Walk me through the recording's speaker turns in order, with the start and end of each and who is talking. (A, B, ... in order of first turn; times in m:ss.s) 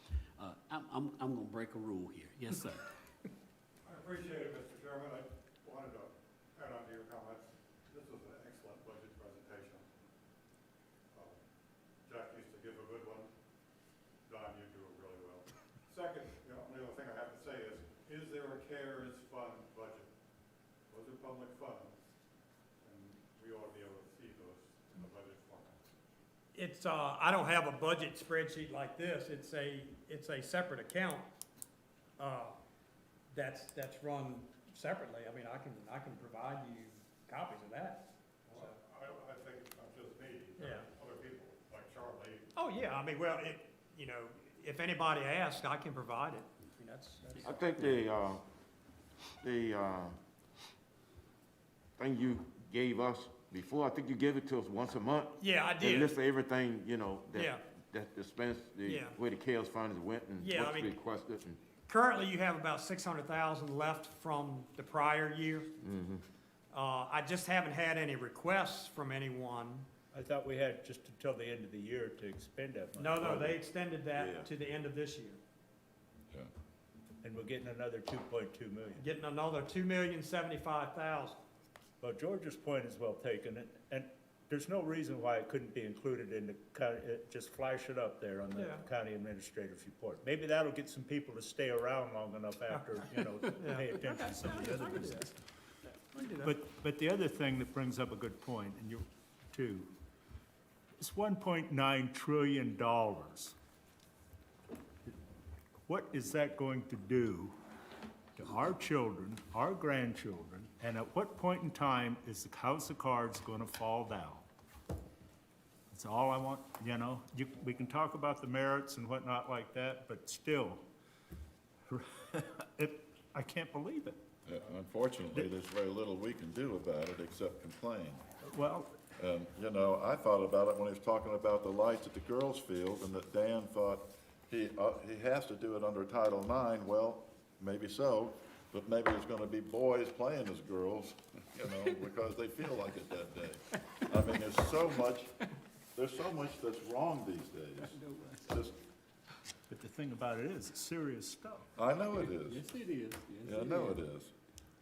0:00.4-0:02.9 A
0:03.8-0:09.9 B
0:12.0-0:13.3 B
0:14.2-0:20.1 B
0:20.9-0:22.0 B
0:22.8-0:25.8 B
0:26.5-0:31.3 C
0:32.2-0:32.6 C
0:33.3-0:38.7 C
0:38.5-0:42.5 B
0:40.6-0:40.9 C
0:42.5-0:48.0 C
0:47.4-0:48.4 D
0:49.4-0:50.2 D
0:52.0-1:01.6 D
0:55.4-0:56.2 C
0:57.3-0:57.6 C
0:58.8-0:59.2 C
1:00.4-1:00.9 C
1:01.9-1:05.7 C
1:05.8-1:06.2 D
1:06.7-1:09.9 C
1:10.1-1:13.6 E
1:13.0-1:15.4 C
1:14.1-1:14.5 D
1:17.2-1:19.0 E
1:19.0-1:21.4 C
1:22.0-1:35.3 E
1:28.5-1:28.8 C
1:32.7-1:35.3 C
1:36.0-1:36.5 C
1:36.4-1:39.9 E
1:41.0-1:43.5 E
1:45.9-1:47.5 E
1:48.4-1:54.4 E
1:55.9-2:00.8 E
2:01.9-2:04.2 E
2:04.4-2:08.2 F
2:08.4-2:08.9 E
2:09.2-2:25.4 F
2:25.9-2:28.8 F
2:27.8-2:28.4 A
2:29.7-2:31.7 E
2:31.8-2:32.7 F
2:32.2-2:34.0 A
2:33.4-2:34.3 F